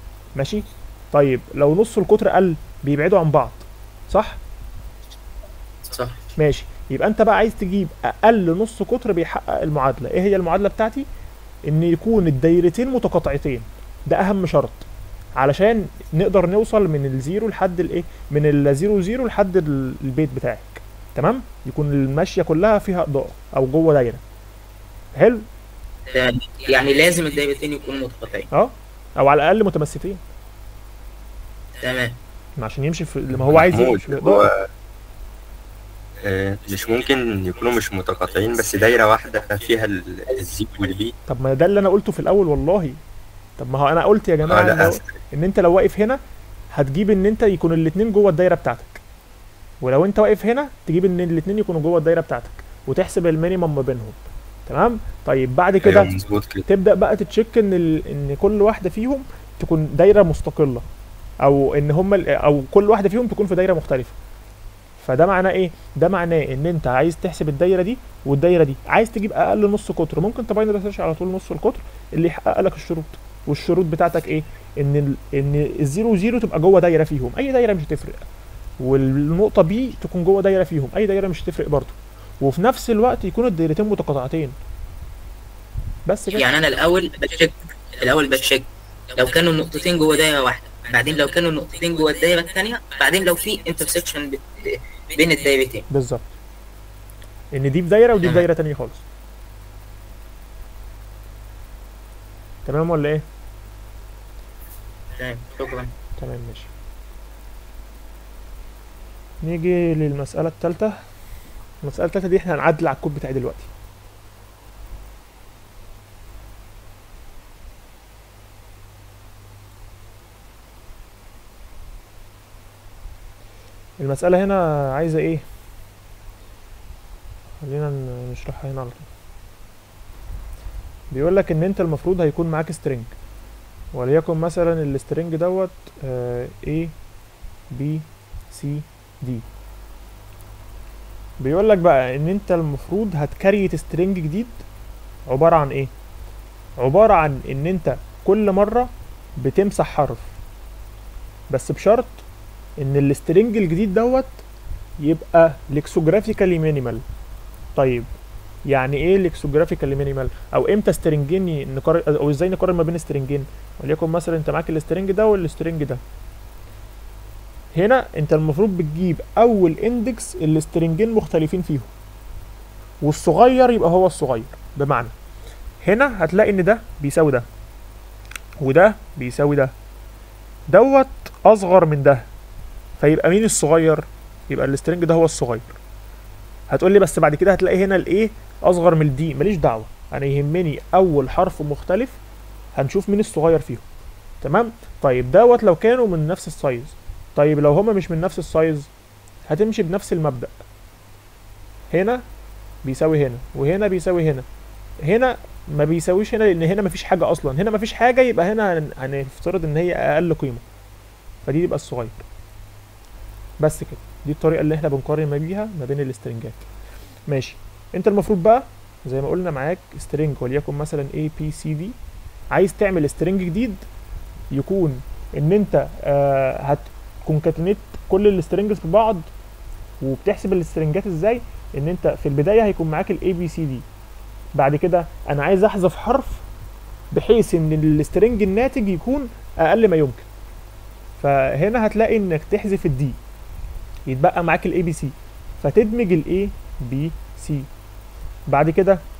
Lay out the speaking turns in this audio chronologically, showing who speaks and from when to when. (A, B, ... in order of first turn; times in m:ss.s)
0:00.4-0:04.4 A
0:05.8-0:06.2 B
0:06.4-0:11.1 A
0:11.7-0:24.2 A
0:25.1-0:25.4 A
0:26.1-0:28.5 B
0:28.5-0:30.2 A
0:31.8-0:32.2 B
0:32.6-0:34.5 A
0:33.5-0:34.5 C
0:36.2-0:41.1 C
0:41.3-0:43.0 A
0:43.6-0:46.2 A
0:44.5-0:45.1 C
0:46.7-0:49.0 A
0:49.8-1:00.8 A
0:55.8-0:56.6 C
1:01.4-1:04.1 A
1:05.0-1:18.2 A
1:18.8-1:24.5 A
1:26.1-1:26.4 A
1:26.3-1:35.8 B
1:35.9-1:36.3 A
1:37.5-1:39.0 A
1:42.6-1:43.2 A
1:45.1-1:45.9 B
1:46.2-1:46.7 A
1:49.4-1:51.0 A
1:51.8-1:53.7 A
2:04.0-2:05.4 A
2:07.6-2:09.1 A
2:11.1-2:13.1 A
2:13.9-2:16.9 A
2:17.7-2:19.4 A
2:21.4-2:24.6 A
2:25.3-2:25.9 A
2:26.8-2:30.3 A
2:31.5-2:32.2 A
2:32.8-2:34.4 A
2:35.0-2:37.0 A
2:37.8-2:38.1 A
2:38.7-2:46.0 A
2:47.7-2:51.9 A
2:53.0-2:55.1 A
2:55.8-2:57.4 A
2:58.6-2:59.7 A
3:00.7-3:02.2 A
3:03.0-3:05.7 A
3:06.7-3:12.2 A
3:12.7-3:13.8 A
3:14.4-3:18.9 A
3:19.5-3:20.6 A
3:21.9-3:22.2 A
3:22.8-3:24.4 A
3:25.0-3:30.6 A
3:31.4-3:32.2 A
3:33.6-3:36.6 A
3:37.3-3:41.9 A
3:42.5-3:43.8 A
3:44.5-3:49.3 A
3:50.0-3:53.8 A
3:54.6-3:56.4 A
3:57.1-4:00.2 A
4:01.2-4:03.2 A
4:04.1-4:07.7 A
4:08.5-4:09.0 A